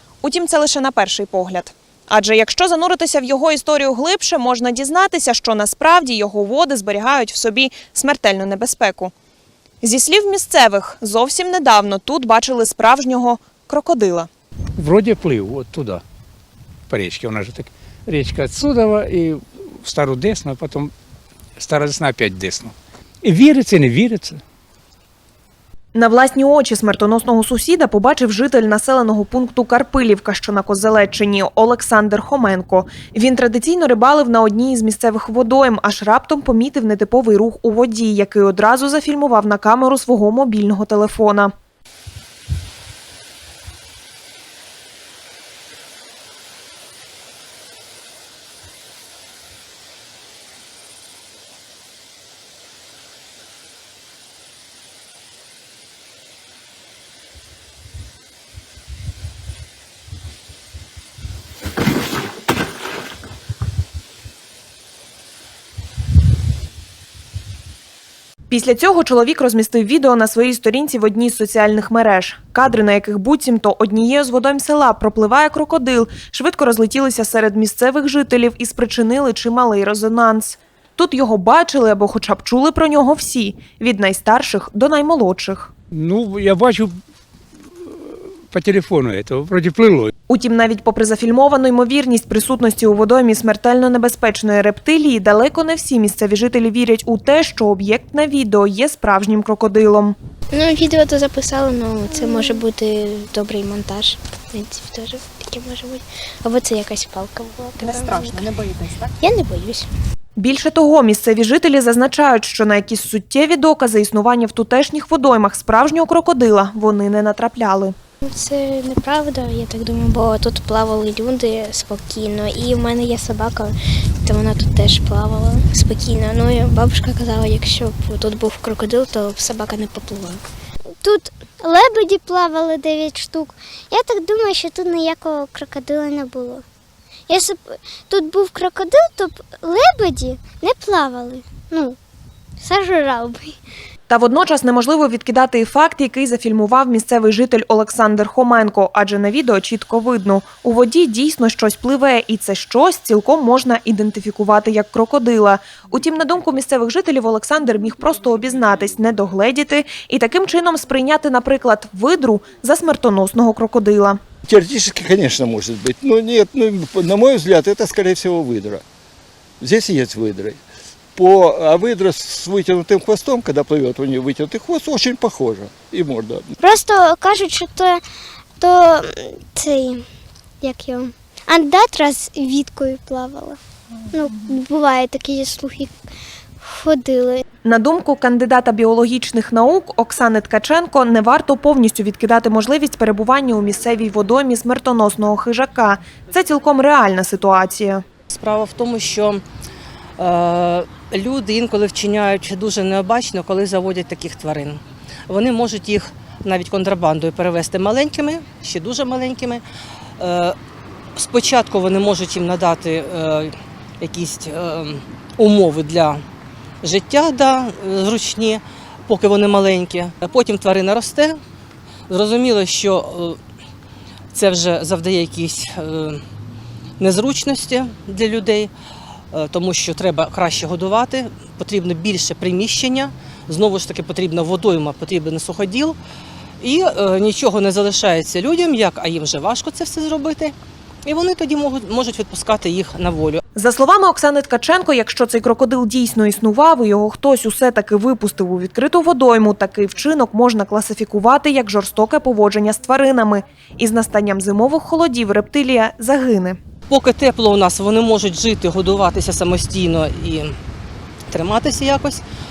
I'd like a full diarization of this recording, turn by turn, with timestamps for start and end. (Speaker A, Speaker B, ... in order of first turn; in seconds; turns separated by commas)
Speaker A: 0.2-9.1, Speaker A: 9.8-14.3, Speaker B: 14.8-16.0, Speaker B: 16.9-20.9, Speaker B: 21.6-24.4, Speaker A: 25.9-41.5, Speaker A: 68.5-85.7, Speaker B: 85.9-87.0, Speaker B: 87.8-90.1, Speaker A: 90.3-100.2, Speaker C: 100.5-108.5, Speaker C: 109.2-109.9, Speaker A: 110.4-118.0, Speaker C: 118.2-130.4, Speaker D: 131.0-136.6, Speaker D: 137.3-142.0, Speaker D: 142.6-143.6, Speaker A: 144.1-164.2, Speaker E: 164.5-168.8, Speaker E: 169.6-170.6, Speaker E: 171.2-176.5, Speaker D: 176.6-178.0, Speaker D: 178.6-180.1, Speaker D: 180.6-183.6, Speaker D: 184.1-185.9, Speaker D: 186.6-187.4, Speaker A: 187.7-198.0, Speaker F: 198.3-199.4, Speaker F: 200.2-209.6, Speaker F: 210.2-210.6, Speaker F: 211.2-216.2, Speaker F: 216.8-221.4, Speaker F: 222.1-223.4, Speaker F: 224.3-226.2, Speaker F: 227.0-228.7, Speaker F: 229.3-236.0, Speaker F: 236.6-240.6, Speaker F: 241.1-243.4, Speaker A: 243.6-256.6, Speaker F: 256.9-260.5, Speaker F: 261.3-262.2